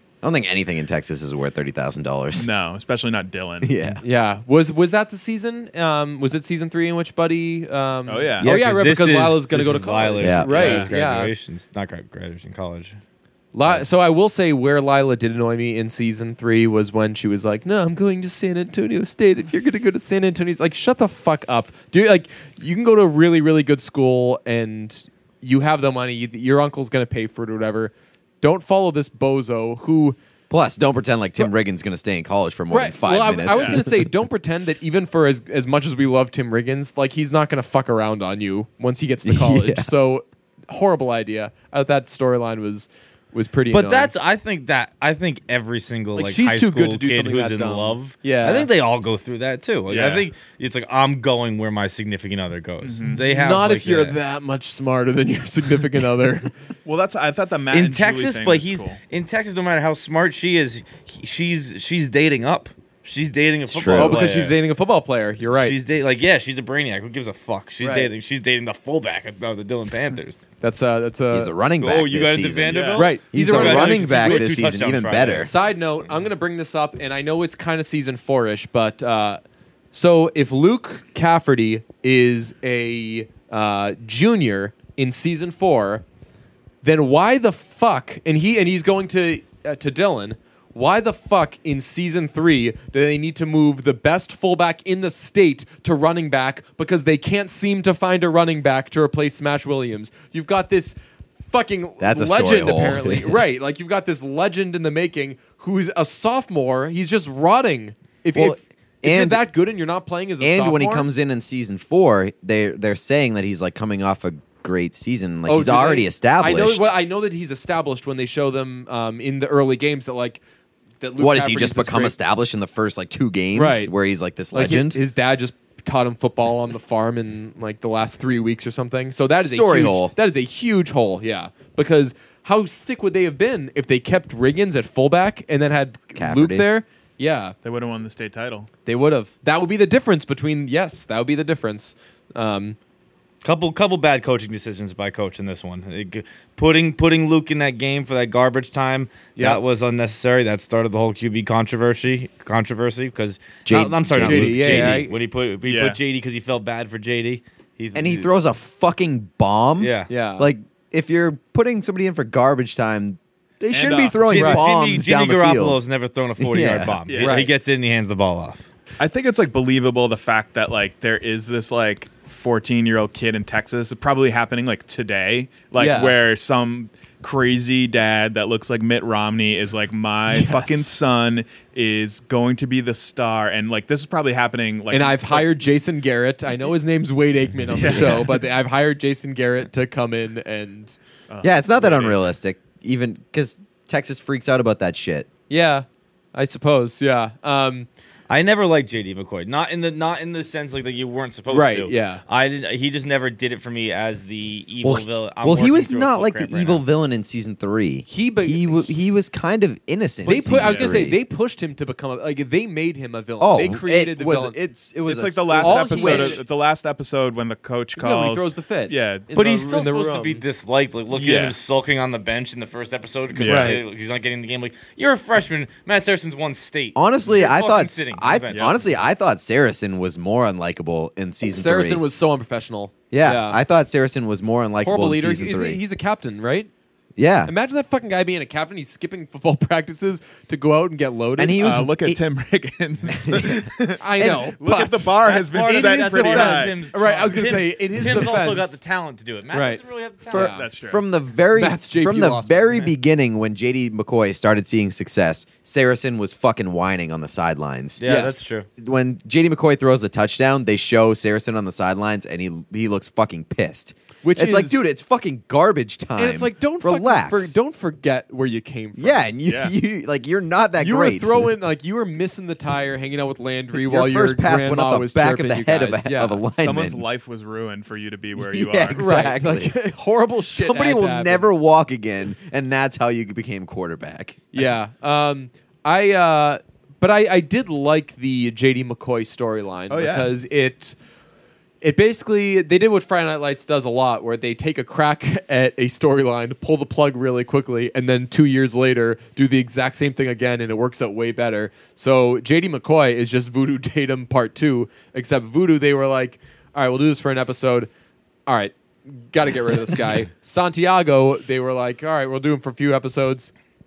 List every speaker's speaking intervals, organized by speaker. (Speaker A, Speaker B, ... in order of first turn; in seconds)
Speaker A: 0.2-2.5, 3.6-4.0, 10.2-10.5, 30.5-34.1, 39.2-39.9, 63.7-64.3, 71.3-75.5, 102.0-103.4, 108.3-109.4, 110.4-116.9, 121.2-125.0, 129.5-130.1, 136.1-136.7, 153.7-155.0, 157.9-165.8, 166.4-167.0, 187.9-188.2, 191.4-195.3, 204.8-211.2, 213.4-216.4, 226.9-232.0, 233.1-235.8, 237.2-237.5, 241.4-242.2, 243.1-243.7, 250.3-258.0, 258.8-267.5, 269.0-271.5, 273.7-277.0, 278.4-279.7, 280.5-284.7
Speaker B: 2.3-3.8, 8.1-8.5, 10.5-10.9, 33.5-33.8, 49.9-50.2, 52.8-53.2, 56.8-59.0, 72.7-73.0, 137.6-138.7, 155.7-156.0, 163.7-164.4, 167.1-167.4, 169.0-185.5, 187.7-188.3, 191.3-192.3, 210.3-211.0, 215.1-219.3, 221.1-221.5, 223.3-223.8, 241.6-246.8, 250.4-251.0, 269.4-269.7, 276.6-279.1, 289.9-290.3
Speaker C: 4.0-11.3, 13.5-30.1, 32.7-44.1, 46.1-48.7, 53.2-56.5, 63.9-65.8, 67.8-68.1, 70.6-71.5, 73.0-74.5, 75.4-79.4, 79.9-86.0, 86.8-101.0, 101.5-111.1, 115.5-120.4, 121.0-122.1, 123.5-123.9, 124.5-137.5, 138.8-142.8, 154.2-155.1, 160.1-160.5, 164.3-164.6, 167.2-167.5, 175.7-176.2, 180.3-180.9, 184.9-190.9, 195.5-197.9, 201.5-202.2, 208.1-208.9, 210.2-214.6, 215.6-216.4, 218.0-220.4, 223.4-223.8, 231.5-233.6, 234.8-236.7, 237.4-241.8, 244.0-248.8, 249.5-250.7, 251.5-252.9, 258.0-258.5, 264.2-264.9, 266.2-269.3, 270.8-276.4, 278.9-281.5, 284.5-290.9, 291.8-307.9, 308.5-313.5
Speaker D: 8.4-13.0, 43.7-54.1, 57.7-64.5, 65.5-70.4, 71.8-75.5, 143.4-158.3, 159.8-160.1, 164.2-168.6, 198.3-206.8, 219.3-228.8, 245.2-250.5, 258.0-258.7